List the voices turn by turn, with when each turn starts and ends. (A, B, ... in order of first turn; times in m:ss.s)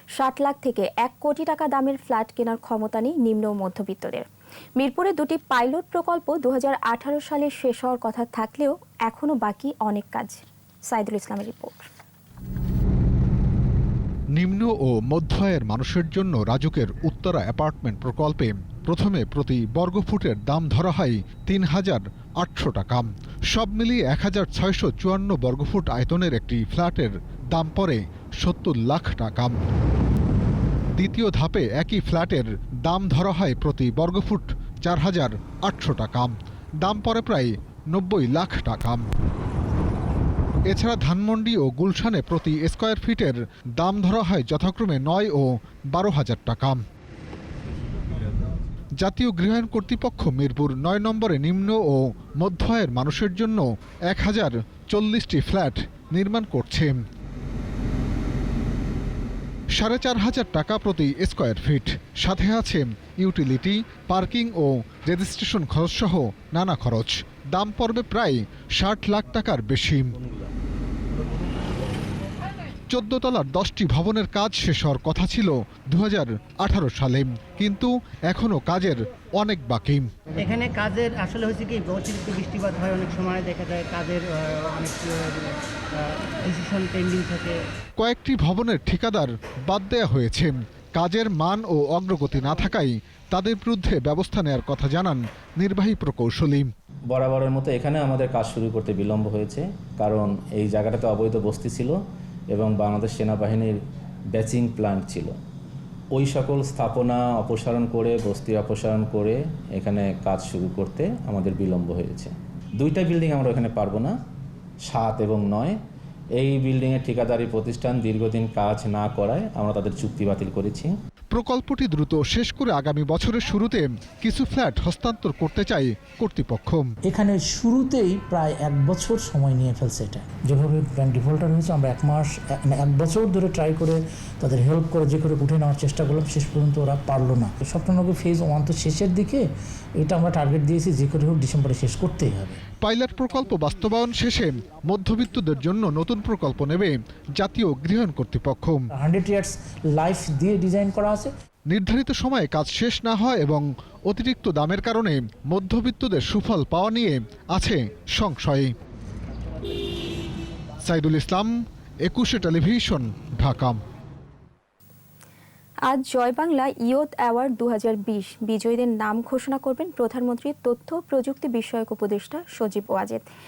0:00.2-0:04.3 A
0:04.8-0:11.9 A
0:14.4-0:29.6 B
0:31.0-0:39.0 B
0:40.6-0:46.8 B
0:49.0-0:57.0 B
0:59.8-1:10.1 B
1:12.9-1:20.1 B
1:20.4-1:24.2 C
1:24.8-1:25.3 C
1:26.4-1:27.5 C
1:28.0-1:36.7 B
1:37.1-1:42.0 D
1:42.5-1:43.8 D
1:44.3-1:45.4 D
1:46.1-1:54.2 D
1:54.8-1:55.8 D
1:56.3-2:00.9 D
2:01.3-2:06.8 B
2:07.0-2:19.4 E
2:20.0-2:22.6 E
2:22.8-2:28.8 B
2:28.9-2:31.3 E
2:31.7-2:38.7 B
2:40.8-2:41.5 B
2:42.1-2:43.8 B
2:45.9-2:53.3 A